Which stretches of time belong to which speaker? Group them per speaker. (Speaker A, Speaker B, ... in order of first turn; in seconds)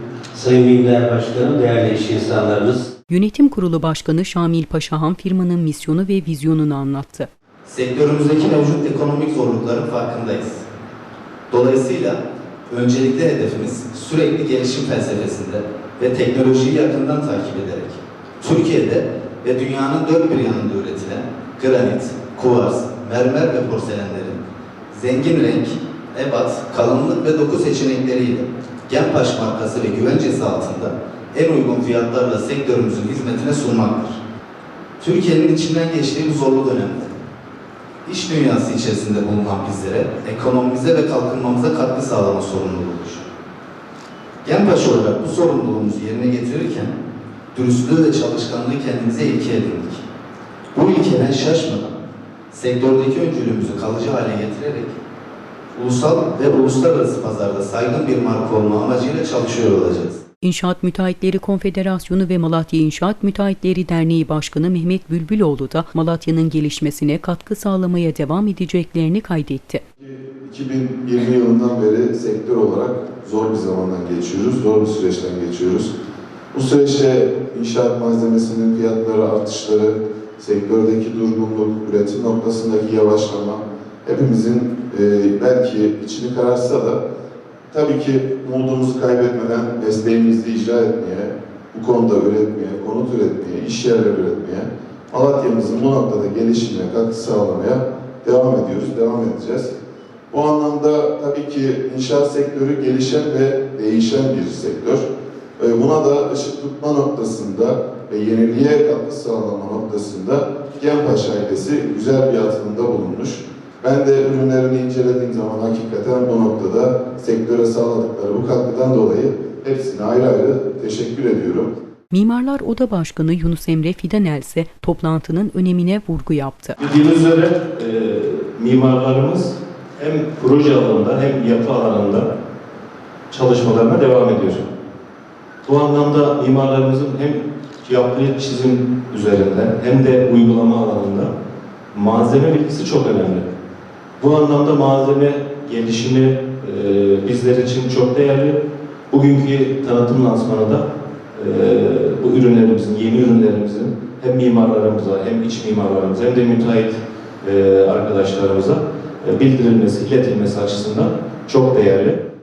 Speaker A: 0.3-2.9
Speaker B: 3.1-7.3, 60.4-69.8, 122.1-126.8
Speaker C: 7.7-10.7, 11.5-34.2, 35.0-37.2, 38.0-43.3, 44.4-46.9, 47.5-50.0, 50.7-52.0, 52.5-55.0, 55.7-60.2
Speaker D: 70.0-75.9, 76.5-87.0, 87.7-99.7, 100.3-105.1, 105.6-121.7
Speaker E: 126.8-132.3, 133.3-134.6, 135.6-141.3, 141.9-143.5, 144.2-148.6, 149.1-162.2